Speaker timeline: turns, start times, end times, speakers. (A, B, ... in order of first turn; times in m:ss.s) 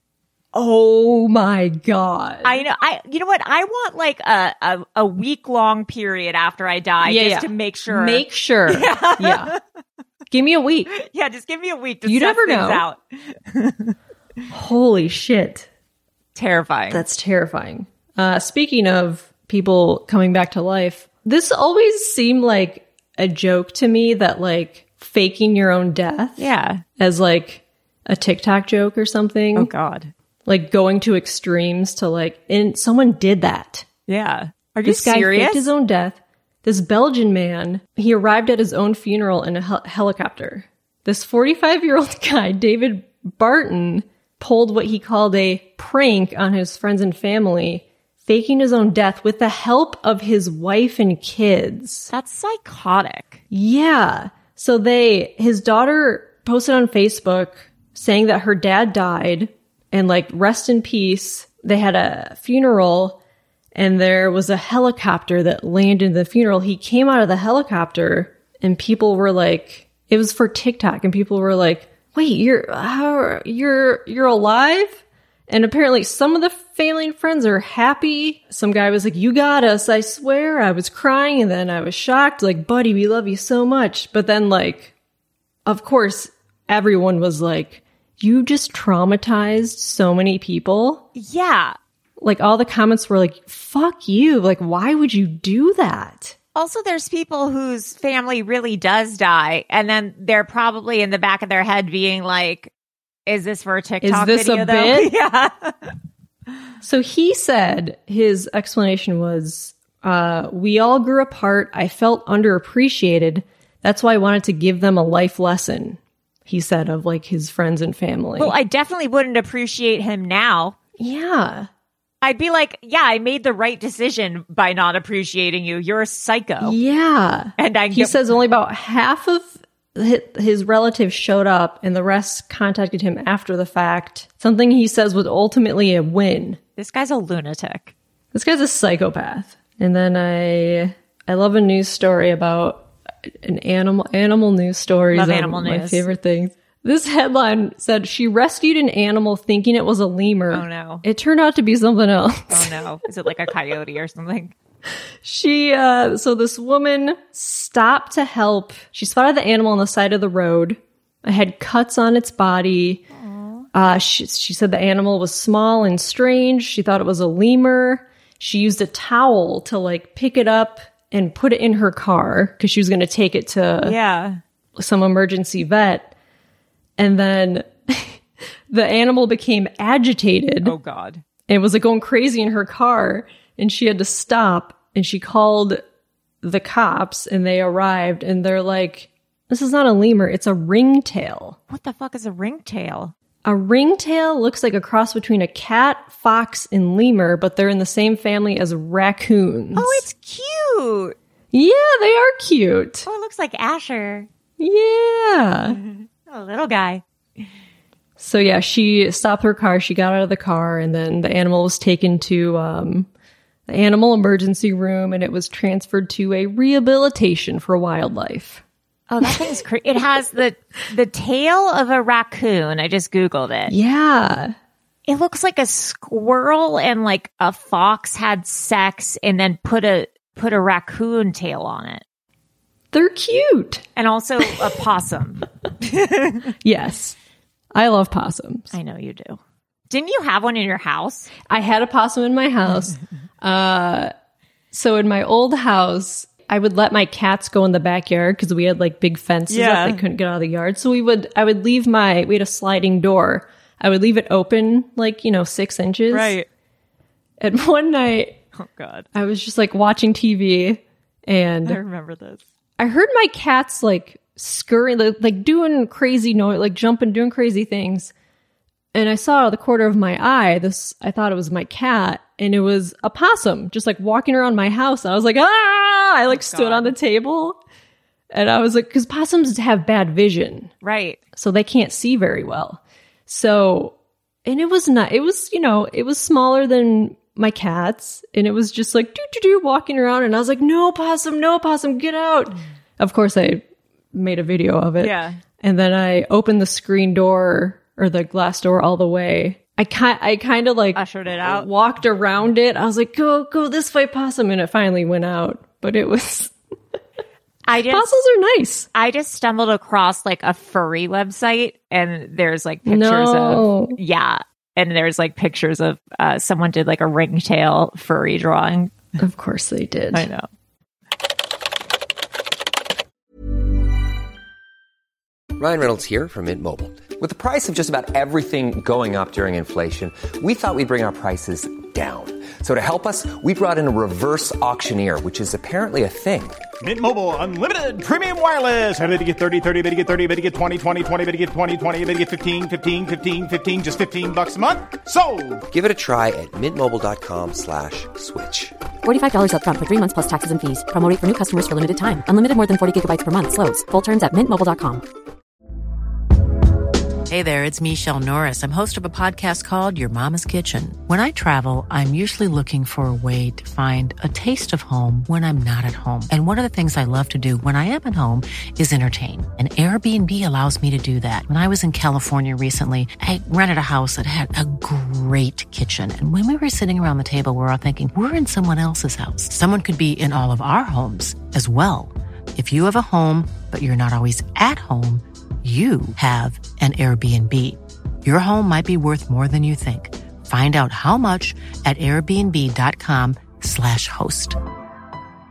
0:00.5-0:02.6 A
0:02.4-0:09.6 B
0:07.0-0:09.5 A
0:10.3-0:10.9 A
0:10.9-0:13.9 B
0:12.0-0:12.8 A
0:14.5-0:15.7 A
0:16.3-0:17.0 B
0:16.9-0:26.5 A
0:26.4-0:26.8 B
0:27.0-0:29.7 A
0:29.5-0:30.1 B
0:30.4-0:33.8 A
0:34.1-0:35.7 B
0:34.8-0:52.1 A
0:52.1-0:53.4 B
0:53.5-1:03.2 A
1:03.7-1:24.9 A
1:25.6-1:31.0 A
1:31.1-1:31.8 B
1:32.2-1:36.4 A
1:36.5-1:42.7 B
1:43.3-1:45.9 B
1:44.0-1:45.1 A
1:46.8-1:58.6 A
1:58.4-2:00.8 B
2:01.0-2:01.7 A
2:02.2-2:06.8 B
2:06.6-2:16.6 A
2:07.6-2:08.2 B
2:16.8-2:17.9 B
2:18.3-2:32.8 A
2:25.1-2:26.1 B
2:30.5-2:31.0 B
2:32.5-2:34.5 B
2:35.2-2:43.0 A
2:43.1-2:43.7 B
2:43.7-2:54.0 A
2:53.8-2:54.4 B
2:54.8-2:56.1 A
2:57.0-2:58.2 A
2:58.7-3:00.7 A
3:00.6-3:01.2 B
3:01.5-3:05.8 A
3:06.4-3:11.6 A
3:11.7-3:13.1 B
3:13.4-3:20.0 A
3:19.8-3:21.2 B
3:21.5-3:23.0 A
3:23.0-3:24.3 B
3:24.6-3:25.8 A
3:25.7-3:27.0 B
3:28.2-3:33.1 A
3:33.7-3:38.6 A
3:39.1-3:43.7 B
3:43.7-3:44.5 A
3:45.1-3:52.0 B
3:52.9-3:53.8 A
3:54.0-3:56.5 B
3:56.6-3:57.2 A
3:57.7-3:58.7 A
3:58.7-4:01.3 B
4:01.4-4:04.1 A
4:04.7-4:16.4 A
4:09.5-4:10.0 B
4:16.1-4:16.5 B
4:17.4-4:18.4 A
4:18.5-4:19.1 B
4:19.1-4:21.8 A
4:21.6-4:22.4 B
4:22.8-4:28.1 A
4:28.9-4:37.6 A
4:36.3-4:36.9 B
4:38.3-4:40.7 A
4:40.8-4:41.2 B
4:41.3-5:06.5 A
4:55.0-4:55.4 B
5:00.9-5:01.7 B
5:07.6-5:08.2 B
5:07.9-5:08.9 A
5:08.9-5:18.9 B
5:12.8-5:14.0 A
5:19.2-5:20.3 A
5:20.1-5:20.4 B
5:25.6-5:36.6 C
5:36.8-5:45.6 D
5:45.7-5:48.7 C
5:49.0-5:55.0 E
5:57.3-6:34.6 F